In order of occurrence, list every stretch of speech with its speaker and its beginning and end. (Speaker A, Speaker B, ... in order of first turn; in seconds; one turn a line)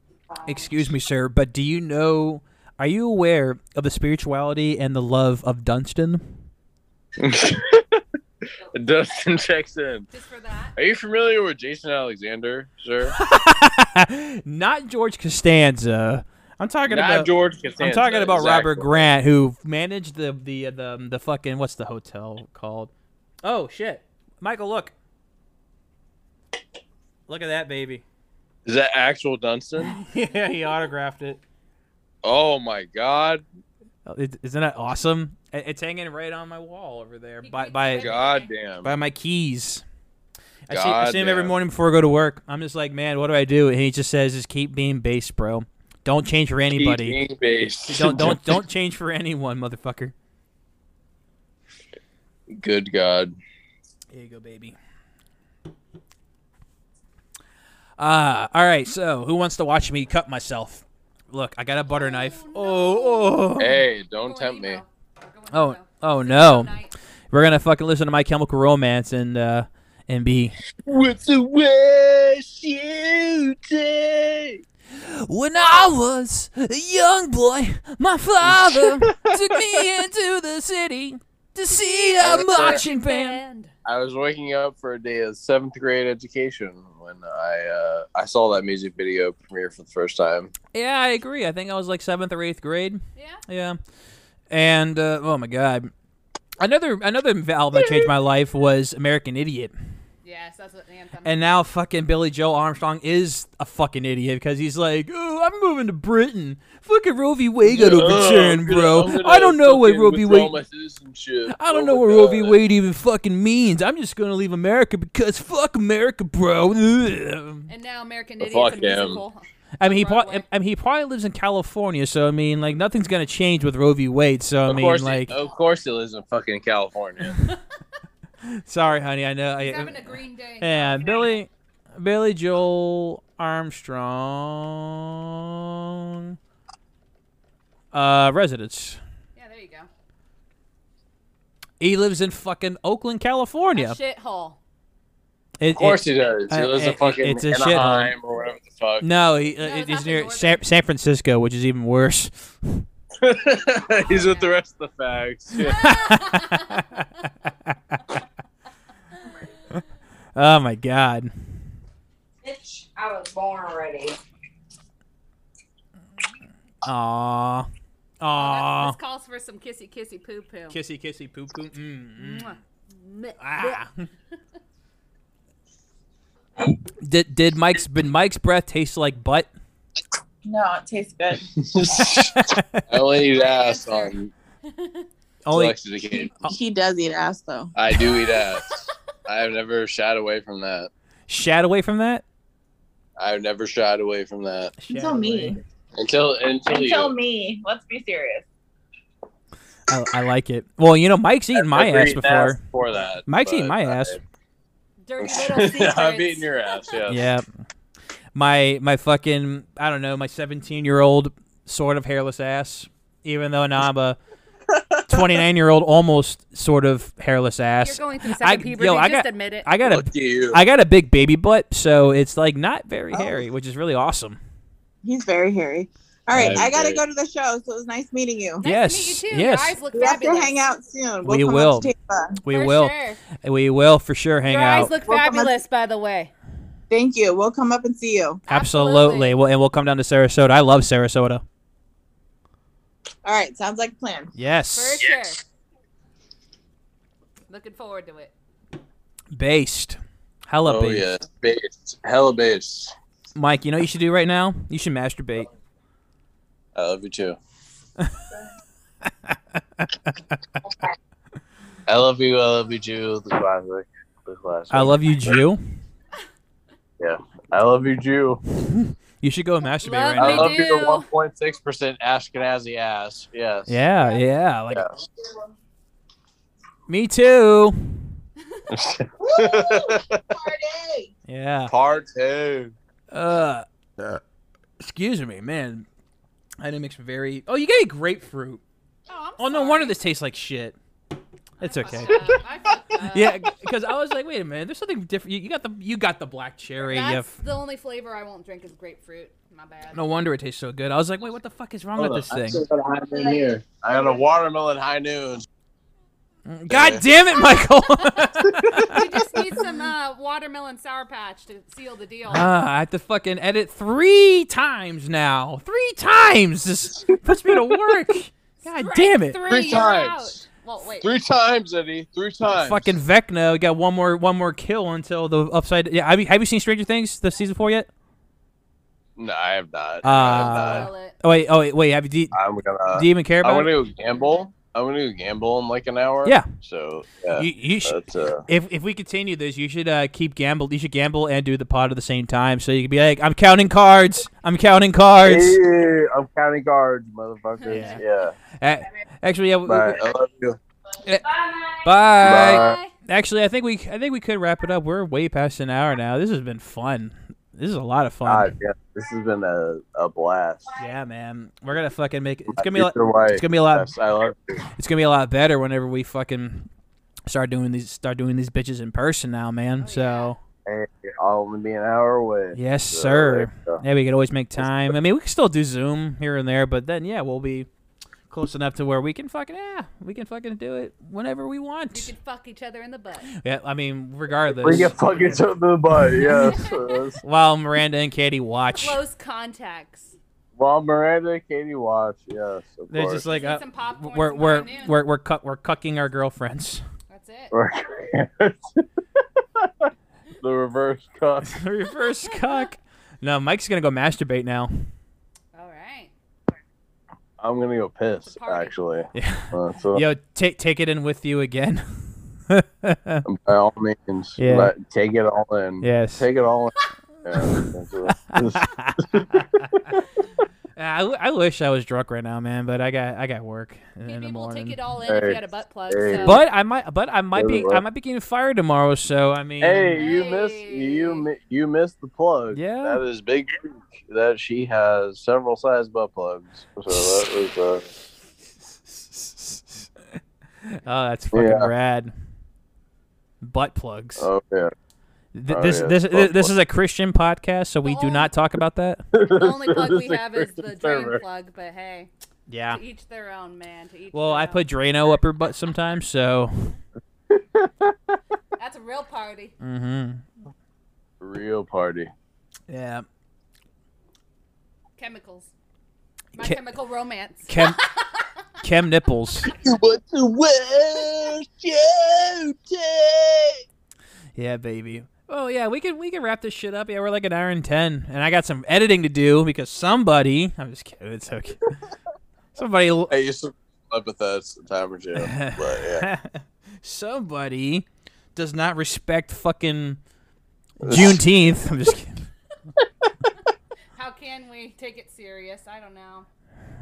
Speaker A: 0.3-0.7
Speaker B: 0.4-6.2
Speaker C: 7.2-8.0
Speaker C: 8.7-10.1
Speaker D: 10.1-10.7
Speaker C: 10.8-13.1
Speaker B: 13.2-22.9
Speaker C: 16.9-19.1
Speaker B: 23.4-24.9
Speaker B: 27.3-28.0
Speaker C: 28.6-29.9
Speaker B: 29.8-31.4
Speaker C: 32.2-33.4
Speaker B: 34.0-38.1
Speaker D: 37.4-38.5
Speaker C: 38.0-38.9
Speaker B: 38.8-39.8
Speaker B: 40.7-47.2
Speaker C: 40.7-41.5
Speaker C: 46.7-48.6
Speaker B: 47.9-50.1
Speaker C: 52.5-53.4
Speaker B: 54.1-54.8
Speaker B: 58.0-63.8
Speaker D: 61.9-63.5
Speaker C: 63.6-64.8
Speaker D: 64.2-66.9
Speaker B: 65.5-66.7
Speaker B: 67.3-70.5
Speaker C: 70.8-74.6
Speaker B: 75.0-83.4
Speaker C: 78.4-79.8
Speaker D: 81.7-83.7
Speaker C: 82.2-82.8
Speaker C: 83.8-90.5
Speaker B: 90.7-93.8
Speaker D: 93.2-93.4
Speaker B: 94.5-95.9
Speaker B: 96.6-99.7
Speaker D: 100.2-101.5
Speaker B: 101.2-110.6
Speaker C: 107.6-112.6
Speaker B: 111.5-117.7
Speaker D: 117.7-120.4
Speaker C: 118.4-119.2
Speaker B: 119.8-125.3
Speaker C: 124.7-127.4
Speaker B: 128.4-136.4
Speaker D: 129.6-131.3
Speaker B: 137.9-139.0
Speaker D: 139.3-139.9
Speaker B: 141.8-144.0
Speaker D: 143.7-144.6
Speaker B: 145.6-148.1
Speaker C: 145.7-149.1
Speaker B: 149.0-152.8
Speaker D: 149.6-150.6
Speaker C: 153.2-155.8
Speaker D: 154.1-154.5
Speaker D: 155.6-157.0
Speaker B: 155.6-158.0
Speaker B: 160.3-161.6
Speaker A: 162.4-164.2
Speaker B: 166.8-167.7
Speaker B: 168.2-169.0
Speaker D: 168.3-170.8
Speaker B: 170.7-172.6
Speaker D: 172.2-173.8
Speaker B: 173.4-174.0
Speaker B: 177.0-179.5
Speaker E: 180.4-181.5
Speaker C: 181.6-184.3
Speaker B: 182.0-182.8
Speaker D: 183.3-184.1
Speaker D: 184.7-185.1
Speaker B: 185.4-185.8
Speaker C: 185.5-186.3
Speaker E: 186.4-187.7
Speaker C: 187.7-188.7
Speaker C: 189.2-190.9
Speaker B: 191.3-192.2
Speaker C: 193.2-194.7
Speaker B: 194.8-195.6
Speaker E: 194.9-195.6
Speaker C: 195.9-197.1
Speaker E: 196.7-198.4
Speaker B: 199.9-202.6
Speaker C: 201.6-204.2
Speaker B: 203.3-204.2
Speaker D: 205.0-206.5
Speaker C: 205.2-207.3
Speaker B: 207.1-207.4
Speaker B: 208.3-214.2
Speaker B: 215.1-224.4
Speaker D: 217.8-219.7
Speaker C: 219.8-220.6
Speaker E: 223.1-223.4
Speaker E: 225.0-228.6
Speaker C: 226.3-227.0
Speaker D: 228.6-230.6
Speaker B: 228.6-229.8
Speaker E: 229.9-232.4
Speaker B: 231.2-231.9
Speaker B: 232.4-234.9
Speaker D: 232.5-233.2
Speaker D: 234.5-236.3
Speaker E: 235.1-235.6
Speaker E: 236.9-238.4
Speaker D: 238.5-239.4
Speaker B: 238.5-241.4
Speaker E: 243.2-244.3
Speaker B: 244.3-245.1
Speaker D: 244.7-245.4
Speaker D: 247.5-248.3
Speaker B: 249.3-251.1
Speaker C: 250.6-252.9
Speaker B: 253.3-255.5
Speaker C: 256.7-257.4
Speaker B: 258.0-258.2
Speaker B: 259.2-260.4
Speaker C: 261.9-265.4
Speaker B: 264.7-265.6
Speaker C: 267.0-268.4
Speaker B: 268.6-270.6
Speaker D: 269.8-271.1
Speaker C: 270.1-273.8
Speaker B: 273.7-274.8
Speaker C: 274.7-275.0
Speaker B: 276.9-278.2
Speaker C: 278.7-280.2
Speaker E: 279.2-281.1
Speaker B: 281.3-281.7
Speaker C: 281.7-282.7
Speaker B: 283.1-283.6
Speaker B: 284.8-285.9
Speaker B: 286.6-288.6
Speaker D: 289.1-289.9
Speaker B: 289.4-290.8
Speaker B: 291.6-292.4
Speaker D: 291.6-293.5
Speaker B: 293.0-297.4
Speaker D: 296.8-300.1
Speaker B: 299.9-302.6
Speaker C: 301.9-305.5
Speaker B: 306.5-309.0
Speaker C: 306.7-307.0
Speaker D: 307.4-312.5
Speaker C: 308.4-308.9
Speaker B: 312.3-319.4
Speaker C: 317.1-317.6
Speaker D: 318.6-321.1
Speaker C: 319.4-320.4
Speaker C: 321.0-323.0
Speaker B: 322.5-327.9
Speaker C: 329.2-330.9
Speaker B: 330.0-332.3
Speaker D: 330.1-331.2
Speaker C: 332.3-338.4
Speaker B: 332.9-333.7
Speaker B: 337.3-345.6
Speaker C: 345.2-348.3
Speaker D: 347.6-348.0
Speaker B: 347.7-348.0
Speaker B: 348.6-350.0
Speaker C: 349.6-350.6
Speaker B: 351.0-351.3
Speaker B: 351.8-358.5
Speaker C: 352.2-352.8
Speaker D: 352.2-352.9
Speaker C: 358.2-360.7
Speaker B: 360.8-363.9
Speaker C: 362.5-364.6
Speaker B: 364.8-366.7
Speaker B: 367.3-370.4
Speaker D: 369.8-370.3
Speaker C: 370.6-373.8
Speaker B: 372.5-377.7
Speaker C: 374.6-374.9
Speaker B: 378.3-382.1
Speaker D: 381.9-383.3
Speaker B: 383.4-385.1
Speaker C: 384.6-387.2
Speaker B: 386.2-386.6
Speaker D: 386.4-387.1
Speaker B: 387.2-389.0
Speaker D: 388.7-390.1
Speaker C: 390.6-393.3
Speaker B: 392.9-396.8
Speaker D: 393.3-395.0
Speaker D: 397.1-397.5
Speaker C: 397.5-398.9
Speaker C: 399.6-399.9
Speaker C: 400.4-401.6
Speaker B: 401.4-404.9
Speaker D: 402.2-402.6
Speaker D: 405.5-406.1
Speaker C: 407.4-410.0
Speaker D: 408.2-408.7
Speaker B: 409.1-413.2
Speaker C: 413.2-419.8
Speaker B: 414.4-414.7
Speaker B: 415.8-416.2
Speaker B: 417.4-417.6
Speaker B: 418.3-419.8
Speaker B: 420.8-424.8
Speaker D: 424.0-426.4
Speaker C: 425.1-426.4
Speaker B: 426.1-430.2
Speaker C: 427.3-427.8
Speaker C: 429.6-437.9
Speaker D: 429.9-431.2
Speaker B: 432.5-433.0
Speaker B: 436.9-437.3
Speaker B: 438.9-439.9
Speaker B: 440.7-442.1
Speaker C: 441.3-441.7
Speaker B: 443.4-444.3
Speaker C: 444.2-444.7
Speaker B: 445.3-449.0
Speaker C: 445.5-446.5
Speaker D: 447.8-448.3
Speaker C: 449.1-451.2
Speaker D: 449.3-452.1
Speaker B: 452.5-452.8
Speaker D: 452.7-454.6
Speaker B: 454.1-456.7
Speaker C: 457.3-457.9
Speaker D: 458.6-459.5
Speaker B: 459.6-460.2
Speaker C: 461.2-462.1
Speaker B: 462.7-463.0
Speaker D: 465.0-465.5
Speaker D: 466.3-468.4
Speaker B: 467.5-467.8
Speaker B: 468.6-469.5
Speaker C: 469.5-473.6
Speaker B: 474.4-481.7
Speaker B: 482.5-483.1
Speaker C: 483.1-486.1
Speaker B: 485.1-490.0
Speaker B: 490.8-492.3
Speaker C: 490.8-491.5
Speaker D: 493.9-496.3